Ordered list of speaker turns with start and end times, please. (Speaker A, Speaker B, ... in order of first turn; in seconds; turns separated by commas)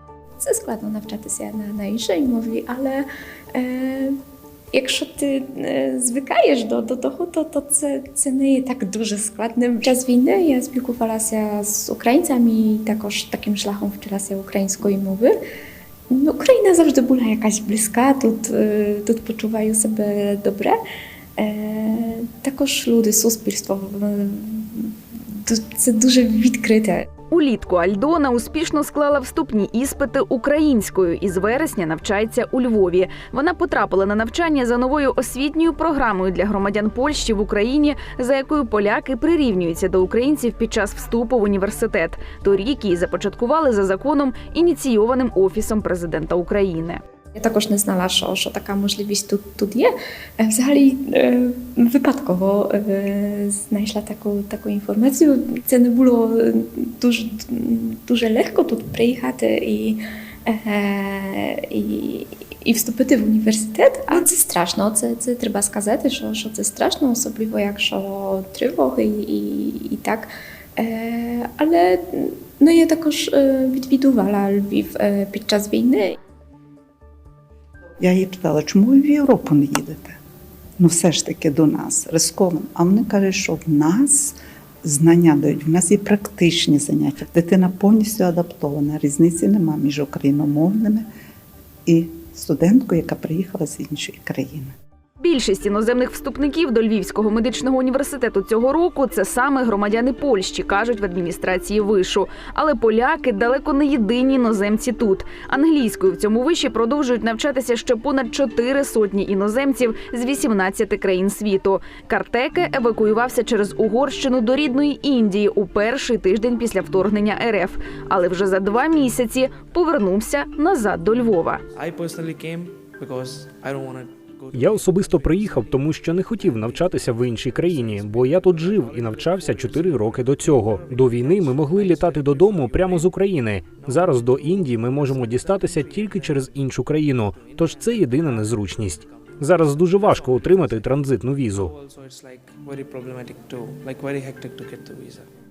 Speaker A: 0.4-4.2, Speaker A: 4.7-15.4, Speaker A: 16.1-20.8, Speaker A: 21.4-26.9, Speaker B: 27.3-47.0, Speaker A: 47.4-76.1, Speaker C: 78.0-80.2, Speaker C: 80.8-91.1, Speaker C: 91.9-94.7, Speaker B: 95.2-121.6, Speaker D: 121.8-125.9, Speaker E: 124.5-141.7, Speaker D: 126.4-145.3